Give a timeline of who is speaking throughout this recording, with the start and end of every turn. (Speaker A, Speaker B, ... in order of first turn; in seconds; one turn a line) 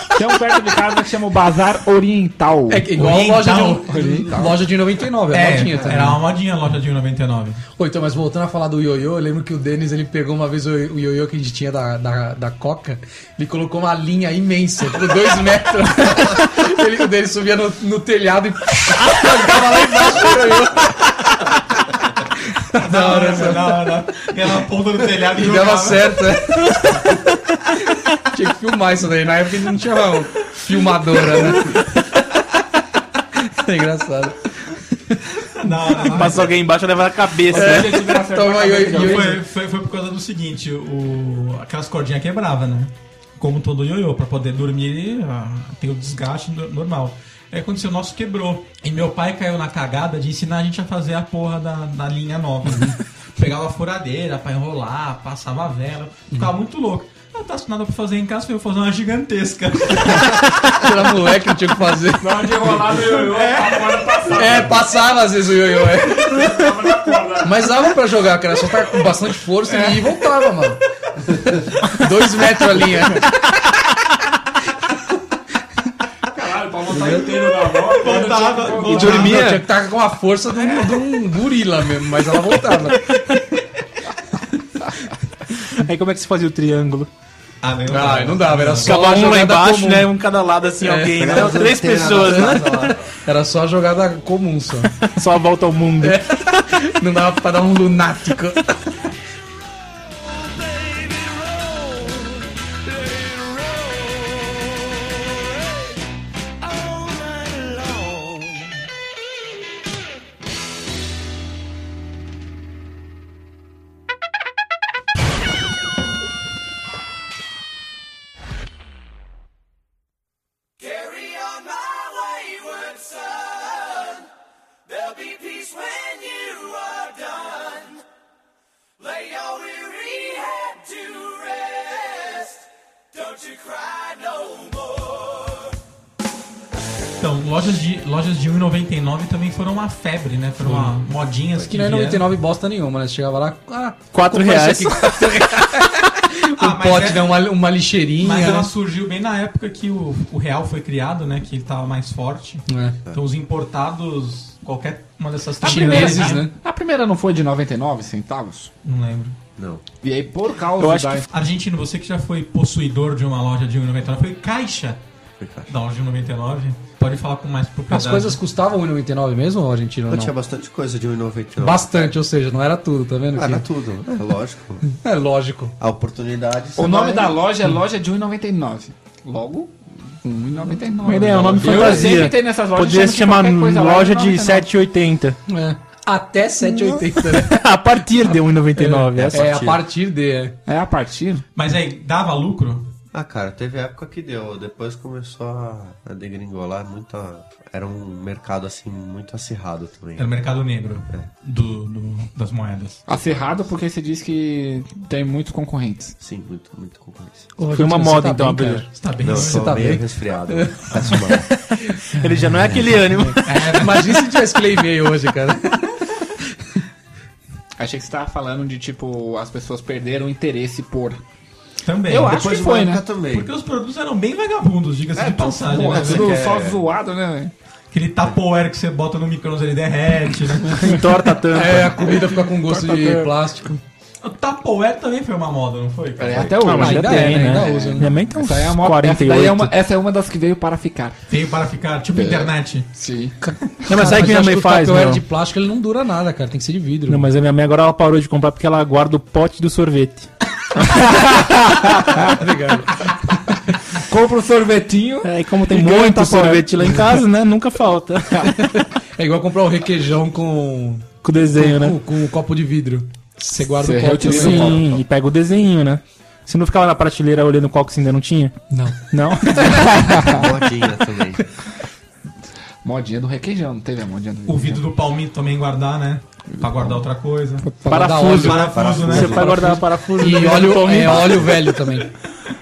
Speaker A: 0.2-2.9
Speaker B: 2.7-6.2
Speaker C: 2.9-4.6
Speaker A: 3.9-4.6
Speaker C: 5.3-7.6
Speaker A: 5.7-6.2
Speaker B: 7.8-21.1
Speaker B: 22.4-23.9
Speaker C: 22.8-26.2
Speaker B: 25.3-27.2
Speaker B: 27.9-32.2
Speaker B: 33.4-35.2
Speaker C: 35.4-36.5
Speaker B: 35.9-36.4
Speaker D: 36.1-38.0
Speaker A: 37.5-39.4
Speaker B: 37.5-39.4
Speaker C: 38.9-61.1
Speaker B: 52.7-53.0
Speaker B: 60.2-62.5
Speaker A: 62.2-64.9
Speaker C: 62.7-64.3
Speaker B: 64.3-66.6
Speaker A: 66.1-67.8
Speaker B: 67.4-73.3
Speaker A: 69.7-70.0
Speaker A: 76.3-79.4
Speaker B: 76.9-77.3
Speaker C: 78.0-79.5
Speaker D: 78.9-79.7
Speaker B: 78.9-83.1
Speaker A: 80.6-81.0
Speaker D: 83.0-83.4
Speaker D: 85.7-87.1
Speaker C: 87.6-89.0
Speaker B: 87.9-90.1
Speaker D: 88.8-92.9
Speaker B: 90.8-95.0
Speaker E: 91.2-93.0
Speaker D: 95.0-96.2
Speaker B: 96.0-98.8
Speaker D: 121.8-124.2
Speaker D: 125.4-127.5
Speaker D: 129.6-132.4
Speaker C: 137.2-142.2
Speaker B: 141.7-148.7
Speaker D: 144.1-145.8
Speaker C: 146.6-147.3
Speaker C: 148.2-156.4
Speaker B: 152.7-153.0
Speaker A: 155.6-158.7
Speaker B: 155.6-156.5
Speaker C: 158.8-159.4
Speaker E: 159.6-159.8
Speaker A: 160.0-161.3
Speaker D: 160.8-161.2
Speaker C: 161.3-165.0
Speaker E: 165.4-165.7
Speaker C: 165.7-168.4
Speaker B: 167.9-170.3
Speaker E: 170.1-172.1
Speaker B: 171.6-173.7
Speaker E: 173.3-174.8
Speaker B: 175.0-175.8
Speaker E: 175.8-177.4
Speaker A: 176.8-184.7
Speaker D: 181.0-185.4
Speaker B: 185.5-187.6
Speaker D: 186.8-189.4
Speaker B: 188.8-190.6
Speaker E: 189.1-189.8
Speaker A: 190.7-191.5
Speaker C: 191.6-192.9
Speaker E: 193.1-200.3
Speaker C: 200.2-203.0
Speaker A: 203.1-206.2
Speaker E: 206.2-207.5
Speaker B: 207.6-212.3
Speaker D: 207.7-208.9
Speaker C: 208.9-209.8
Speaker E: 209.2-211.5
Speaker C: 211.0-211.3
Speaker D: 212.1-213.5
Speaker B: 213.1-216.0
Speaker C: 213.4-214.3
Speaker A: 217.8-221.2
Speaker C: 221.8-222.7
Speaker A: 222.1-223.0
Speaker E: 222.2-223.5
Speaker C: 223.3-226.4
Speaker A: 225.1-227.5
Speaker E: 225.9-226.8
Speaker C: 227.9-231.0
Speaker D: 230.7-232.1
Speaker B: 231.4-233.8
Speaker A: 232.7-233.3
Speaker C: 234.2-236.5
Speaker A: 236.2-241.3
Speaker E: 236.2-236.6
Speaker D: 236.6-239.7
Speaker B: 236.7-238.2
Speaker C: 241.3-242.9
Speaker A: 242.1-243.4
Speaker B: 243.4-247.3
Speaker D: 243.9-245.2
Speaker D: 247.1-250.3
Speaker A: 250.8-252.4
Speaker B: 252.2-253.1
Speaker A: 253.9-257.2
Speaker D: 255.2-258.8
Speaker B: 258.7-264.8
Speaker D: 261.2-262.0
Speaker A: 263.8-265.0
Speaker D: 264.2-268.5
Speaker B: 268.7-269.9
Speaker D: 269.1-270.0
Speaker A: 269.5-270.5
Speaker E: 270.3-271.4
Speaker A: 272.8-274.9
Speaker C: 274.5-277.7
Speaker A: 276.5-277.0
Speaker A: 277.6-278.4
Speaker D: 277.9-281.5
Speaker B: 277.9-278.9
Speaker C: 278.3-279.7
Speaker E: 278.4-279.7
Speaker B: 279.6-282.1